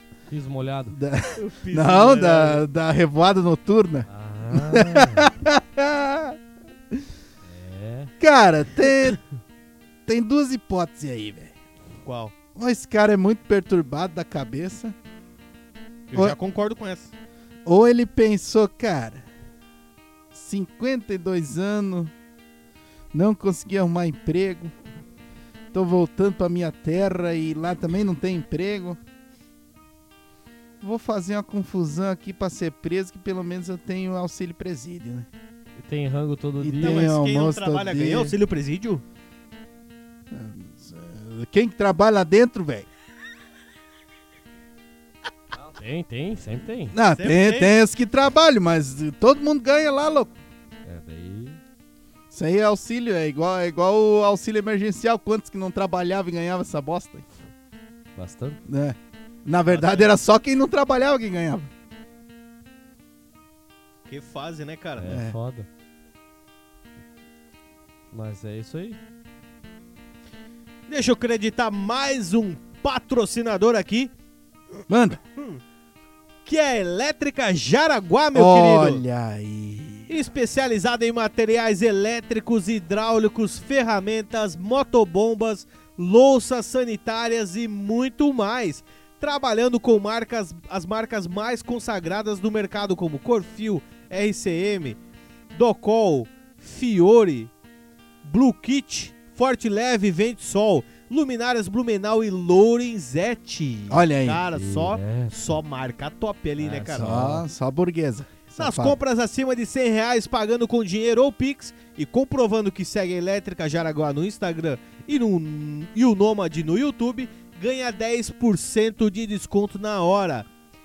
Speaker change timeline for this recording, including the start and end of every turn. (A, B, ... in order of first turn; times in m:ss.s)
0:00.3-0:01.0 A
0:00.9-0:06.4 B
0:01.4-0:02.7 C
0:04.1-0:05.3 A
0:07.5-0:08.1 A
0:08.2-0:09.2 B
0:10.0-0:11.5 B
0:12.0-0:12.3 C
0:12.6-0:15.0 B
0:16.1-0:17.1 C
0:17.6-0:19.3 B
0:20.3-0:22.1 B
0:23.1-0:24.7 B
0:25.7-0:29.0 B
0:30.8-0:35.3 B
0:35.8-0:37.1 A
0:36.6-0:38.3 B
0:36.8-0:39.0 C
0:40.3-0:42.9 B
0:45.6-0:46.9 A
0:46.9-0:50.3 B
0:47.1-0:47.7 C
0:50.8-0:51.6 A
0:52.3-0:57.2 B
0:58.1-0:58.6 A
0:58.7-1:01.7 B
0:59.6-1:00.1 C
1:04.1-1:05.1 C
1:05.0-1:05.7 A
1:05.1-1:05.4 B
1:08.1-1:09.0 A
1:10.9-1:14.1 C
1:14.9-1:15.2 B
1:15.4-1:15.6 C
1:16.4-1:19.0 C
1:18.3-1:20.1 B
1:20.1-1:35.0 C
1:35.5-1:37.5 C
1:38.2-1:47.1 C
1:43.9-1:44.4 B
1:44.5-1:45.6 A
1:46.6-1:47.4 A
1:46.9-1:49.0 B
1:48.6-2:00.4 C